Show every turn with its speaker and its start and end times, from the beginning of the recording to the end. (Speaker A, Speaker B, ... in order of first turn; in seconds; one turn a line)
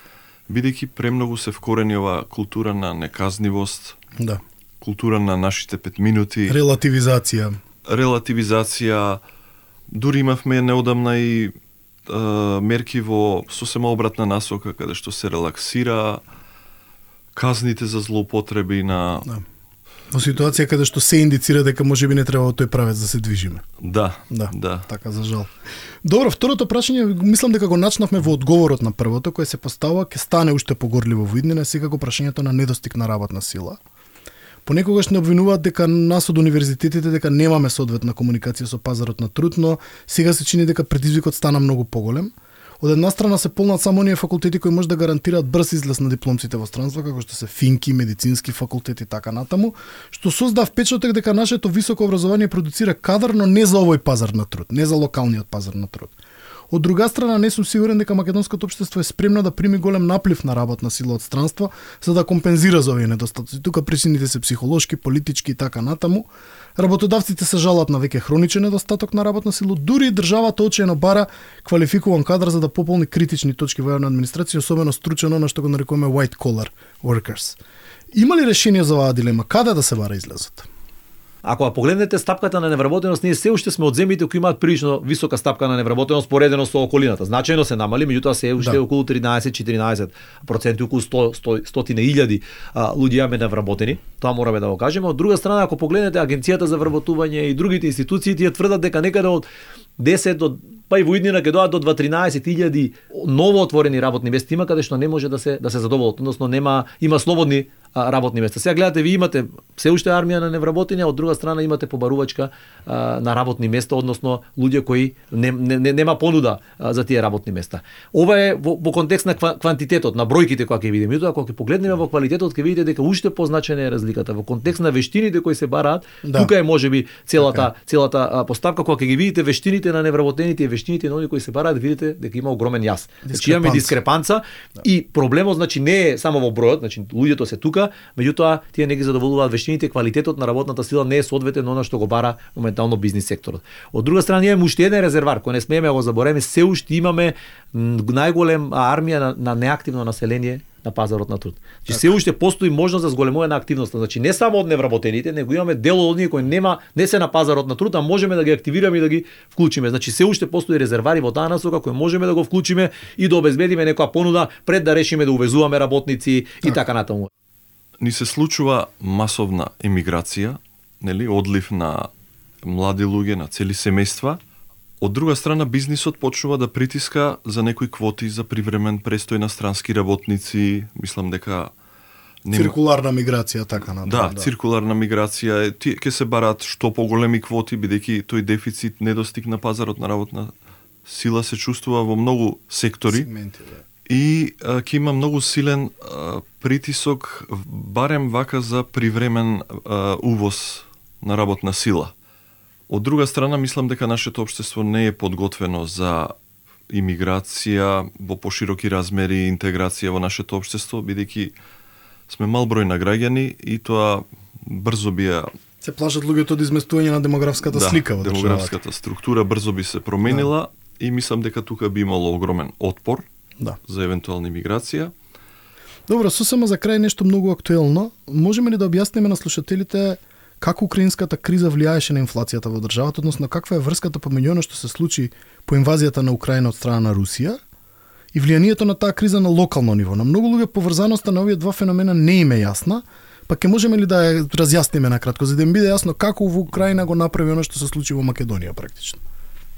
Speaker A: 0.5-4.0
Speaker B: 4.2-4.4
Speaker A: 4.8-6.6
Speaker B: 6.5-7.6
Speaker A: 7.9-9.2
Speaker A: 9.9-11.5
Speaker A: 12.1-16.2
Speaker A: 17.4-19.3
Speaker B: 20.1-23.6
Speaker A: 23.8-24.9
Speaker B: 24.3-25.5
Speaker B: 26.0-33.8
Speaker B: 34.7-56.1
Speaker B: 56.7-77.6
Speaker B: 78.1-80.7
Speaker C: 81.4-99.5
Speaker C: 100.0-167.3
Speaker B: 126.2-126.5
Speaker B: 127.4-127.7
Speaker B: 133.3-134.0
Speaker A: 168.0-172.1
Speaker A: 172.6-174.4
Speaker A: 175.0-181.7
Speaker A: 182.4-182.8
Speaker B: 182.5-184.5
Speaker A: 184.1-190.5
Speaker A: 191.1-193.3
Speaker B: 193.1-193.8
Speaker A: 194.1-202.1
Speaker A: 202.9-206.3
Speaker A: 206.9-211.5
Speaker A: 212.3-215.5
Speaker B: 215.8-218.8
Speaker A: 217.7-223.2
Speaker A: 223.9-225.1
Speaker B: 226.1-237.6
Speaker B: 238.3-249.2